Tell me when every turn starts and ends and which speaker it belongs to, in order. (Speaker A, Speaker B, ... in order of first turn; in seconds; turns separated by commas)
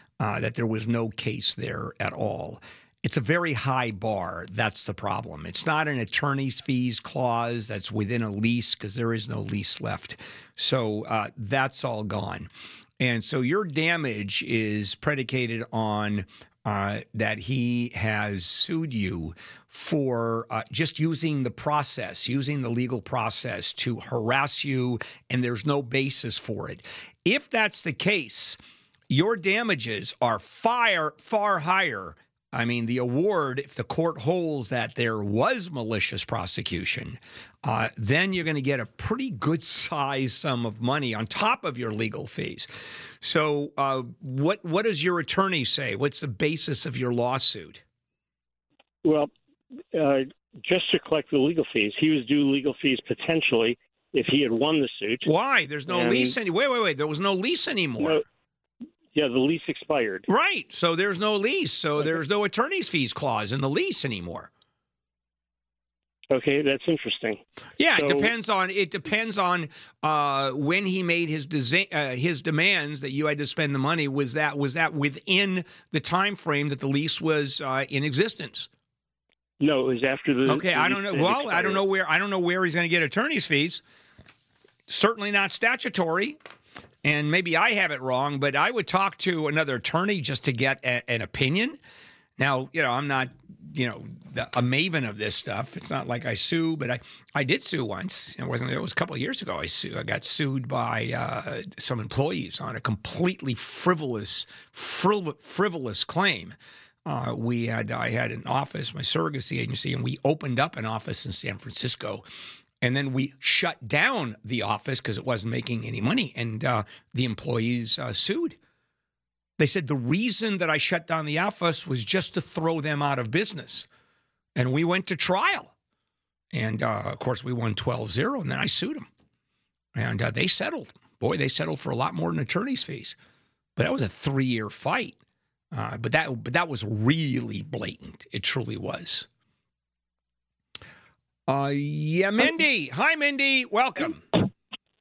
Speaker A: 0.2-12.5, Speaker A: 13.0-28.6, Speaker A: 29.1-42.7, Speaker A: 43.2-47.8, Speaker B: 49.0-49.3, Speaker B: 49.9-55.3, Speaker A: 55.2-58.2, Speaker B: 55.9-56.3, Speaker B: 59.1-60.3, Speaker A: 60.3-64.5, Speaker B: 66.3-67.4, Speaker A: 67.8-78.7, Speaker B: 68.0-68.3, Speaker B: 79.6-81.8, Speaker A: 80.5-83.8, Speaker A: 84.9-86.4, Speaker A: 87.0-91.8, Speaker A: 92.4-106.5, Speaker A: 107.0-112.2, Speaker A: 112.8-118.5, Speaker A: 119.6-123.9, Speaker A: 124.5-125.7, Speaker A: 126.5-129.1, Speaker A: 129.9-133.2, Speaker A: 133.8-135.2, Speaker A: 135.7-139.3, Speaker A: 141.5-144.2